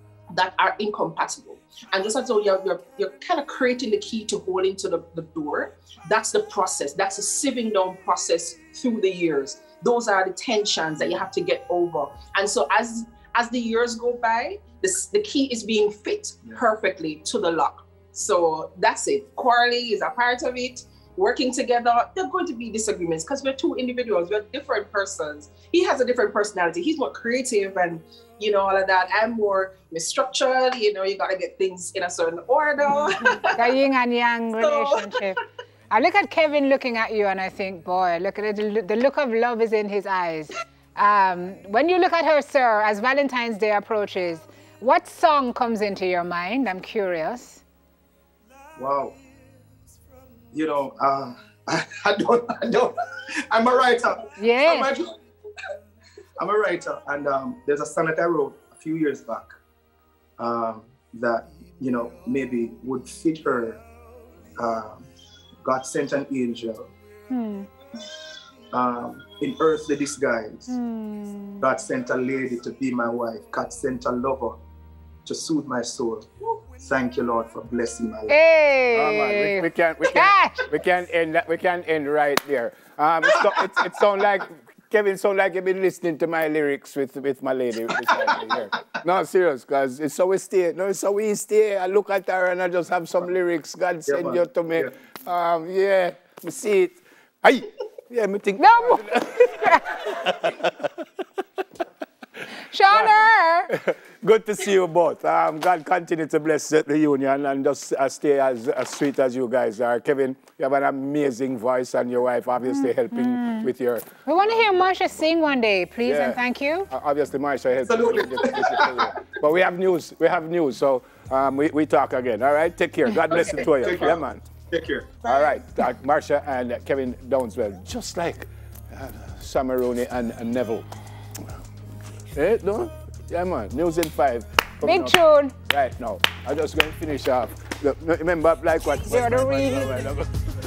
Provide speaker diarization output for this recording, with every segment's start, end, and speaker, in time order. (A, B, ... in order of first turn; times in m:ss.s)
0:00.3-0:33.8 A
0:33.5-0:35.4 B
0:34.6-0:35.3 A
0:35.9-0:47.6 B
0:48.8-0:49.2 C
0:50.5-0:52.9 C
0:53.5-0:55.1 C
0:54.4-0:54.9 B
0:56.4-0:59.5 C
1:00.4-1:03.8 C
1:04.6-1:05.1 C
1:05.6-1:06.9 C
1:07.3-1:07.7 B
1:08.7-1:10.7 C
1:10.7-1:11.7 B
1:11.6-1:14.6 C
1:15.2-1:16.2 C
1:16.8-1:18.4 C
1:18.3-1:20.7 B
1:18.9-1:40.7 D
1:28.1-1:28.6 C
1:34.1-1:34.9 C
1:38.6-1:40.0 B
1:42.6-1:43.7 B
1:43.7-1:54.1 D
1:52.6-1:53.7 B
1:54.2-1:56.9 B
1:56.0-1:56.4 D
1:56.9-2:04.4 D
1:57.8-1:59.1 C
2:03.3-2:05.1 C
2:03.3-2:04.1 A
2:05.2-2:05.6 A
2:05.2-2:10.9 D
2:12.3-2:15.1 D
2:14.8-2:15.5 B
2:15.6-2:20.3 D
2:19.0-2:20.1 B